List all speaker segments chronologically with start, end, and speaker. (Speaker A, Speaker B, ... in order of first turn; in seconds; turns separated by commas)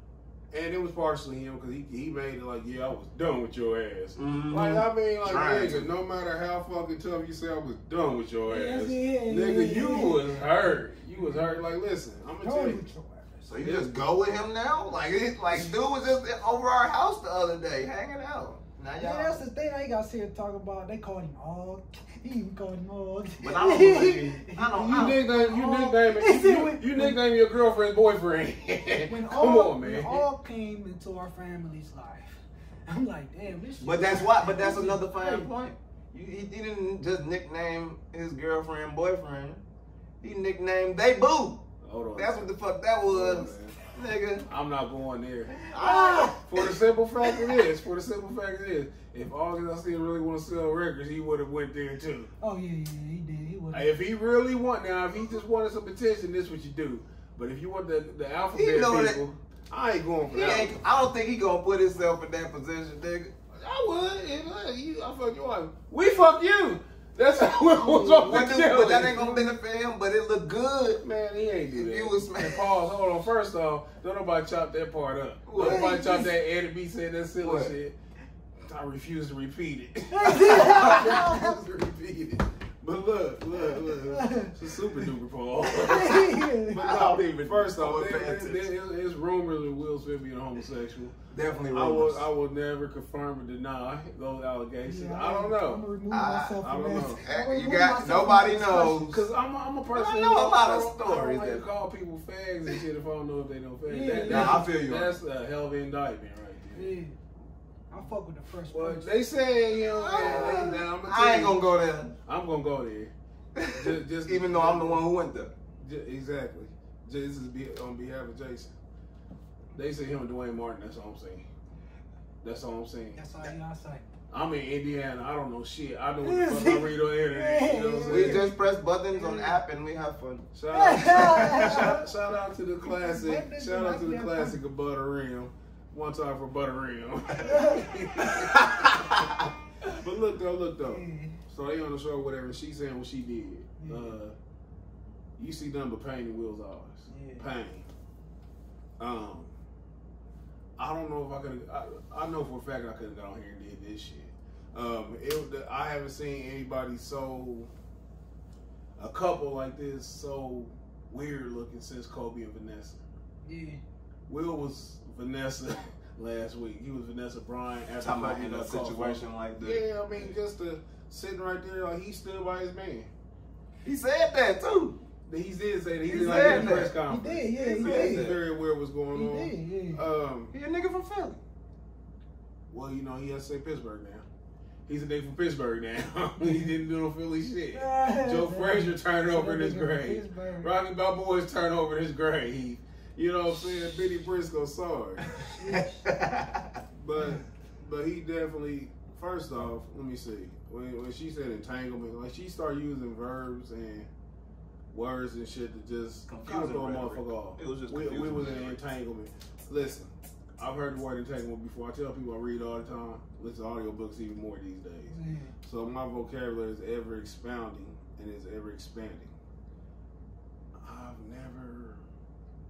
Speaker A: 0.5-12.8, Speaker B: 4.2-5.9, Speaker C: 8.5-11.6, Speaker C: 12.4-13.7, Speaker B: 13.5-19.4, Speaker A: 13.6-13.9, Speaker C: 19.0-27.2, Speaker B: 23.4-25.2, Speaker A: 24.7-30.3, Speaker C: 29.1-35.5, Speaker B: 33.8-39.6, Speaker B: 40.2-41.6, Speaker A: 41.8-42.5, Speaker B: 42.1-44.5, Speaker A: 43.0-43.8, Speaker A: 44.4-52.3, Speaker B: 45.5-47.6, Speaker C: 45.8-46.4, Speaker C: 52.4-53.9, Speaker A: 53.7-60.8, Speaker B: 58.5-59.2, Speaker B: 60.2-63.3, Speaker A: 63.5-69.3, Speaker C: 67.6-69.5, Speaker B: 68.2-71.0, Speaker A: 71.0-78.0, Speaker B: 71.7-72.7, Speaker B: 75.5-76.1, Speaker C: 75.6-76.3, Speaker B: 77.4-77.7, Speaker A: 78.6-91.2, Speaker C: 80.1-81.6, Speaker B: 80.5-81.3, Speaker C: 84.0-84.5, Speaker C: 85.8-87.0, Speaker B: 85.8-88.7, Speaker B: 91.3-92.3, Speaker A: 91.7-95.8, Speaker C: 94.8-99.1, Speaker B: 96.1-99.2, Speaker A: 96.6-97.2, Speaker A: 99.0-106.9, Speaker B: 99.9-101.7, Speaker C: 103.9-104.7, Speaker B: 104.2-105.1, Speaker C: 106.7-107.2, Speaker C: 107.9-109.1, Speaker A: 108.7-111.6, Speaker B: 109.8-112.1, Speaker C: 110.2-110.8, Speaker A: 112.2-113.1, Speaker B: 113.5-115.5, Speaker A: 113.7-115.0, Speaker A: 115.8-118.7, Speaker A: 119.7-121.5, Speaker A: 122.4-123.2, Speaker C: 123.2-124.0, Speaker A: 124.3-128.5, Speaker C: 126.2-128.5, Speaker B: 128.1-132.0, Speaker C: 129.1-129.6, Speaker A: 130.5-138.7, Speaker C: 130.7-132.0, Speaker C: 132.8-134.6, Speaker C: 137.4-138.0, Speaker B: 138.2-139.5, Speaker A: 139.9-144.3, Speaker C: 140.8-141.4, Speaker C: 143.8-144.2, Speaker A: 145.4-147.9, Speaker C: 147.1-147.5, Speaker A: 149.0-149.5, Speaker A: 150.8-157.7, Speaker A: 159.0-163.0, Speaker C: 163.4-163.8, Speaker A: 164.3-173.1, Speaker B: 168.0-169.8, Speaker B: 173.8-175.0, Speaker A: 175.2-180.5, Speaker C: 176.1-178.3, Speaker B: 176.1-177.0, Speaker B: 177.6-178.4, Speaker C: 179.1-180.1, Speaker B: 180.5-181.4, Speaker A: 182.7-184.3, Speaker A: 184.9-195.2, Speaker C: 186.4-186.7, Speaker C: 187.7-190.7, Speaker B: 195.3-196.7, Speaker C: 195.5-196.1, Speaker A: 197.0-204.1, Speaker C: 197.2-197.4, Speaker A: 204.9-219.3, Speaker B: 206.3-208.8, Speaker C: 215.1-215.6, Speaker A: 220.8-222.0